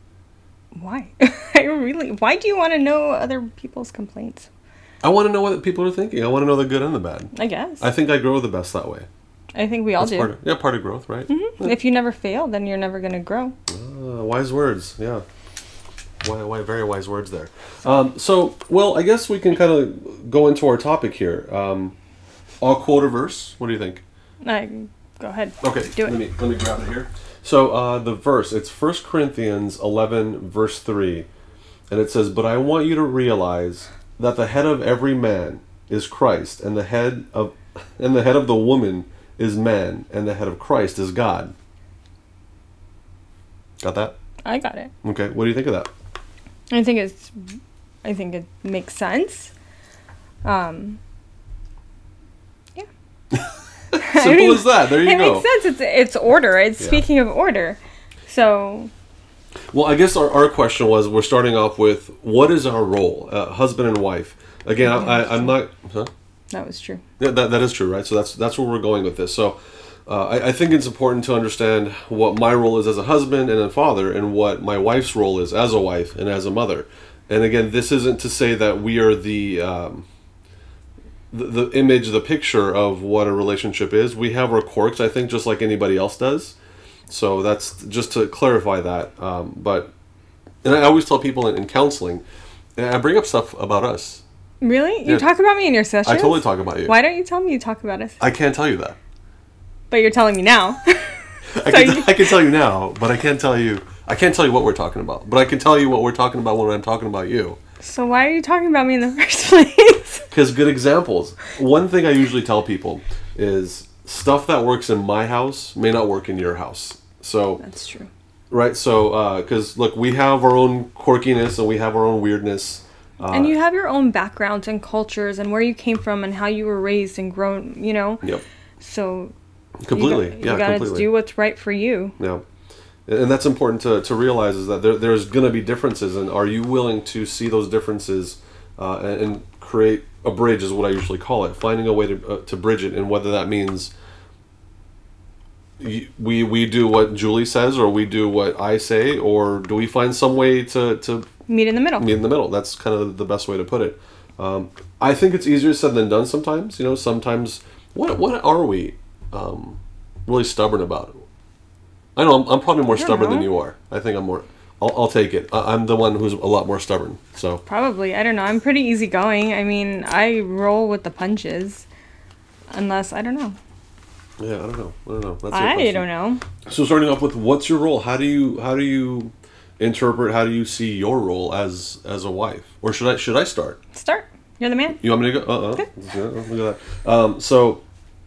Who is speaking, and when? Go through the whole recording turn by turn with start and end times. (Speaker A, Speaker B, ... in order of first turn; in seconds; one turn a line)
Speaker A: 0.8-4.5
Speaker B: 5.0-9.1
Speaker A: 7.3-7.8
Speaker A: 9.5-10.3
Speaker B: 10.0-11.7
Speaker A: 11.3-13.5
Speaker B: 13.7-15.2
Speaker B: 16.2-21.9
Speaker B: 22.6-24.0
Speaker A: 24.4-26.1
Speaker B: 25.6-31.3
Speaker B: 31.9-41.5
Speaker B: 43.8-44.1
Speaker A: 44.5-44.9
Speaker B: 45.0-45.9
Speaker A: 46.7-47.4
Speaker A: 48.0-49.5
Speaker A: 50.4-51.0
Speaker B: 53.3-55.5
Speaker A: 54.0-58.9
Speaker B: 59.7-66.1
Speaker A: 64.8-65.5
Speaker A: 66.5-67.0
Speaker B: 67.2-80.1
Speaker B: 81.3-86.5
Speaker B: 87.1-89.9
Speaker B: 90.6-92.2
Speaker B: 92.8-94.2
Speaker A: 94.6-98.2
Speaker B: 96.0-97.0
Speaker B: 98.2-99.0
Speaker A: 99.9-102.3
Speaker B: 101.5-107.6
Speaker A: 107.8-110.3
Speaker B: 110.3-117.6
Speaker A: 117.6-118.1
Speaker B: 118.5-123.5
Speaker A: 123.3-128.2
Speaker A: 128.8-129.3
Speaker B: 129.8-131.1
Speaker A: 129.9-132.1
Speaker B: 132.2-132.4
Speaker B: 133.1-143.9
Speaker B: 145.8-151.3
Speaker A: 151.5-152.1
Speaker B: 152.0-161.2
Speaker B: 162.2-167.6
Speaker A: 162.9-163.5
Speaker A: 167.7-171.9
Speaker A: 172.7-173.6
Speaker B: 174.4-176.1
Speaker A: 175.5-176.4
Speaker B: 176.6-183.8
Speaker A: 183.9-185.0
Speaker B: 185.0-187.8